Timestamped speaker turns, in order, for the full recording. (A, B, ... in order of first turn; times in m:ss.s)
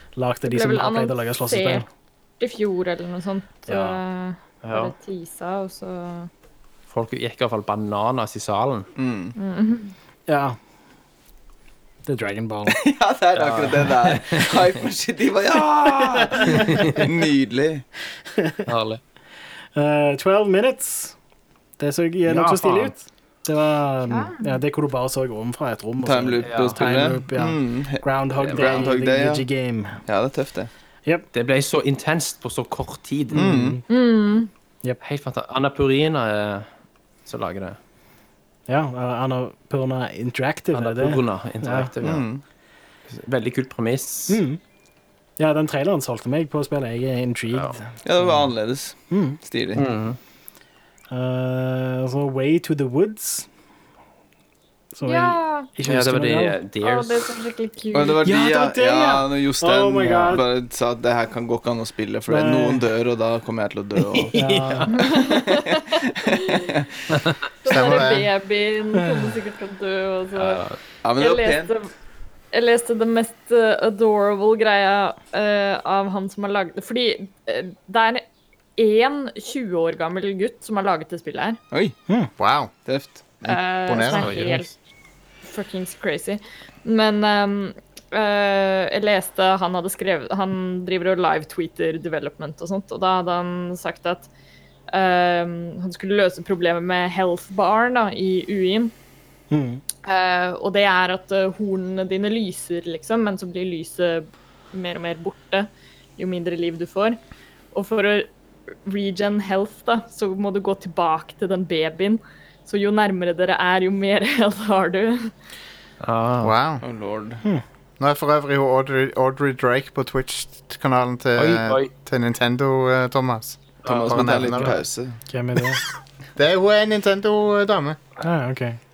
0:00.2-0:01.8 A
0:00.4-0:01.8 B
0:02.4-0:06.3 B
0:03.7-0:04.0 A
0:04.6-0:04.9 C
0:06.9-0:08.9 C
0:09.0-0:09.4 D
0:09.4-0:09.9 B
0:10.3-0:10.6 A
0:12.1-0:12.8 A
0:12.7-0:17.8 D
0:13.4-0:14.6 C
0:16.2-0:17.0 A
0:16.5-0:17.0 C
0:18.4-0:18.6 A
0:18.7-0:19.0 C
0:19.8-0:21.1 A
0:21.8-0:30.0 A
0:22.3-0:22.9 C
0:24.1-0:24.6 B
0:26.0-0:29.4 D
0:26.4-0:27.0 C
0:28.4-0:28.9 C
0:30.1-0:30.7 D
0:31.3-0:33.5 C
0:33.3-0:33.8 A
0:33.3-0:33.8 D
0:33.9-0:34.5 B
0:35.0-0:36.7 C
0:37.3-0:37.8 C
0:38.7-0:41.9 A
0:40.7-0:42.2 C
0:42.0-0:42.4 D
0:43.1-0:44.4 C
0:44.3-0:44.6 A
0:45.4-0:47.9 A
0:48.0-0:49.8 D
0:49.1-0:49.4 A
0:49.8-0:50.2 C
0:51.1-0:53.5 A
0:54.9-0:56.6 A
0:55.1-0:55.7 B
0:55.8-0:57.4 C
0:56.8-0:58.2 B
0:57.9-1:04.4 D
0:58.2-1:00.4 A
1:02.3-1:02.8 A
1:04.0-1:05.2 C
1:04.3-1:04.9 A
1:04.9-1:06.7 B
1:06.2-1:07.0 D
1:07.1-1:07.4 C
1:07.6-1:10.6 B
1:07.6-1:08.3 E
1:10.4-1:10.8 C
1:11.0-1:11.7 D
1:11.2-1:11.9 B
1:12.5-1:18.2 B
1:18.8-1:21.6 B
1:22.4-1:22.7 E
1:22.9-1:23.3 D
1:23.4-1:24.6 E
1:23.4-1:24.7 B
1:24.1-1:24.6 C
1:25.4-1:34.3 B
1:34.9-1:38.9 B
1:39.5-1:39.8 A
1:40.0-1:47.2 B
1:47.7-1:48.3 B
1:48.8-1:55.3 B
1:56.0-1:56.5 C
1:56.4-1:56.8 E
1:56.8-1:57.4 D
1:58.0-2:04.8 E
2:01.4-2:01.9 C
2:03.8-2:04.8 C
2:03.8-2:05.2 D
2:05.3-2:05.8 A
2:06.4-2:08.0 E
2:08.2-2:08.8 A